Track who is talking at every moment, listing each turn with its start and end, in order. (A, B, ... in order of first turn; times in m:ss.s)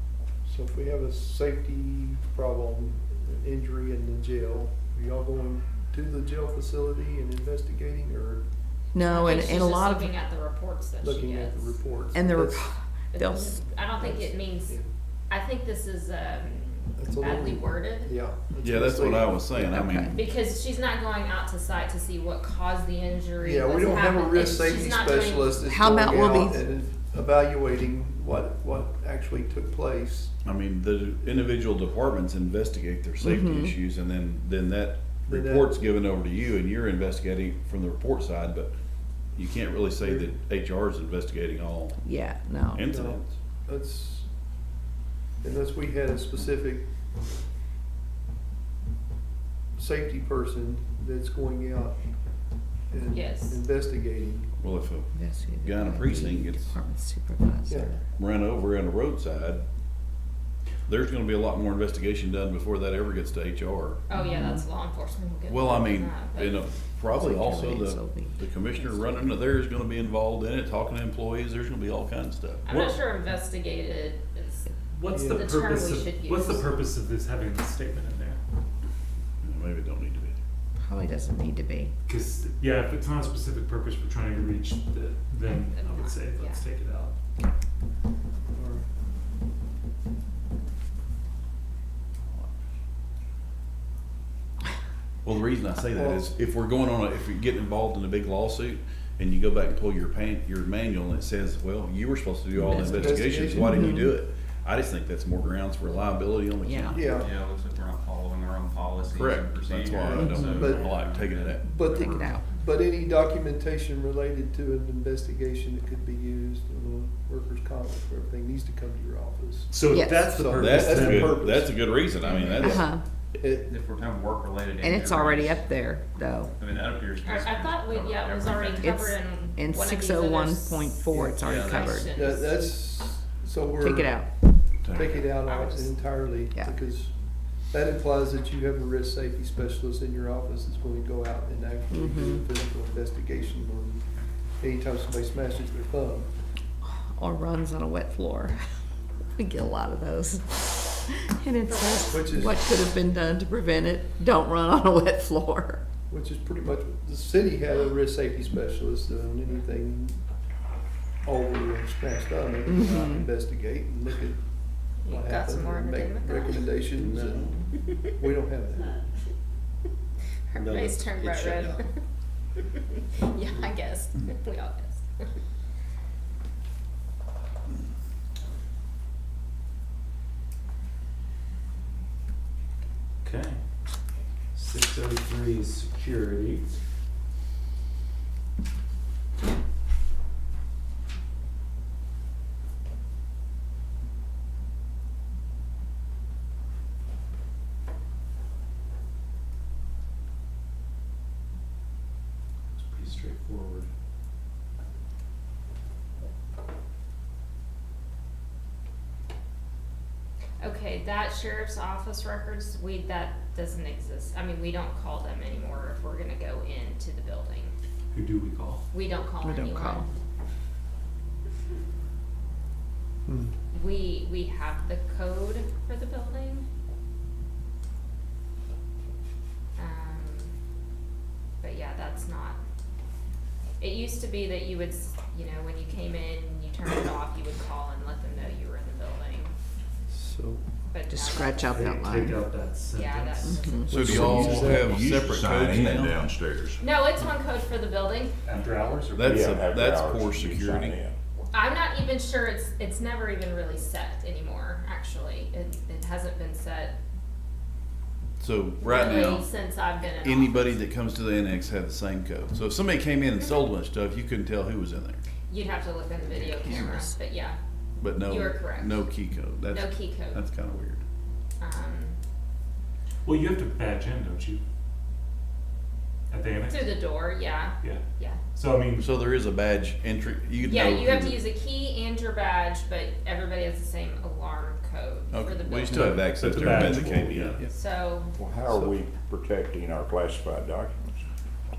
0:00.4-0:08.4 A
0:08.9-0:10.1 B
0:09.1-0:11.8 C
0:11.0-0:12.7 A
0:12.1-0:13.6 B
0:13.1-0:18.2 C
0:14.0-0:14.9 A
0:17.0-0:19.7 A
0:18.6-0:20.2 D
0:19.6-0:20.1 B
0:20.1-0:25.6 C
0:23.4-0:30.3 A
0:25.6-0:26.6 B
0:30.4-0:38.7 D
0:33.2-0:33.7 B
0:35.3-0:35.7 A
0:39.3-0:42.0 D
0:42.0-0:42.8 B
0:42.7-0:43.3 D
0:42.9-0:44.3 A
0:45.4-0:46.8 A
0:49.8-0:52.0 A
0:52.9-0:54.5 A
0:53.1-0:53.6 C
0:54.6-0:56.8 D
0:55.1-0:58.0 B
0:57.7-0:57.9 A
0:58.2-0:59.6 D
1:00.8-1:04.0 D
1:04.1-1:06.6 C
1:04.1-1:04.6 B
1:05.5-1:12.6 D
1:07.1-1:09.4 B
1:12.6-1:16.7 C
1:12.7-1:13.0 E
1:14.8-1:18.4 E
1:15.1-1:15.8 A
1:19.4-1:20.4 D
1:20.8-1:21.9 B
1:22.1-1:27.1 E
1:25.7-1:26.6 C
1:28.5-1:28.8 A
1:32.2-1:32.5 D
1:35.2-1:47.2 D
1:35.9-1:36.3 A
1:42.6-1:44.1 B
1:42.7-1:44.0 A
1:46.6-1:47.0 B
1:46.9-1:47.3 A
1:47.1-1:51.6 F
1:49.1-1:52.4 D
1:50.0-1:50.9 A
1:50.2-1:50.6 B
1:51.6-2:01.8 A
1:51.9-1:52.4 B
1:59.7-2:01.3 E
1:59.9-2:00.2 B
2:00.5-2:03.0 D
2:02.2-2:02.8 C
2:02.6-2:03.0 B
2:03.4-2:03.7 A
2:03.6-2:05.7 F
2:04.8-2:06.5 B
2:06.6-2:09.2 F
2:07.2-2:12.6 C
2:09.6-2:12.1 B
2:11.1-2:11.5 A
2:11.4-2:12.1 F
2:12.1-2:14.2 A
2:13.8-2:14.3 B
2:14.9-2:17.1 A
2:15.1-2:16.1 C
2:17.7-2:24.0 A
2:21.9-2:22.4 B
2:24.6-2:26.3 A
2:27.1-2:28.6 B
2:29.3-2:35.8 B
2:32.0-2:32.8 A
2:36.1-2:40.2 A
2:41.2-2:44.4 A
2:42.7-2:43.2 B
2:45.0-2:46.8 C
2:45.0-2:49.1 A
2:47.0-2:47.6 F
2:50.5-2:52.0 C
2:50.6-2:51.8 F
2:52.7-2:55.3 C
3:03.2-3:03.6 E
3:04.5-3:06.7 E
3:22.7-3:23.9 E
3:30.6-3:37.7 C
3:38.1-3:38.8 E
3:38.9-3:40.1 C
3:39.4-3:40.0 B
3:43.3-3:43.5 A
3:43.7-3:46.6 C
3:49.8-3:50.5 C
3:51.6-3:52.6 C
3:53.8-3:59.5 C
4:00.1-4:00.7 A
4:00.9-4:01.7 C
4:01.1-4:02.4 B
4:01.6-4:03.6 E
4:02.9-4:04.4 C
4:03.6-4:03.8 B
4:03.9-4:04.9 A
4:03.9-4:06.2 D
4:04.0-4:06.8 G
4:04.2-4:04.8 E
4:06.8-4:08.4 C
4:08.4-4:09.4 E
4:09.2-4:11.0 D
4:09.2-4:11.1 G
4:11.5-4:17.0 C
4:18.4-4:19.5 D
4:18.8-4:20.8 C
4:20.0-4:25.2 D
4:25.5-4:27.6 C
4:26.6-4:27.1 B
4:28.0-4:31.0 D
4:28.2-4:29.1 C
4:29.7-4:30.4 C
4:31.6-4:32.2 C
4:33.2-4:34.6 E
4:36.3-4:37.0 E
4:36.7-4:38.4 C
4:38.5-4:39.1 E
4:39.0-4:41.4 D
4:40.6-4:46.3 C
4:45.3-4:47.6 D
4:45.9-4:47.6 E
4:46.4-4:47.6 G
4:47.6-4:48.3 C
4:48.4-4:51.1 G
4:48.7-4:48.9 A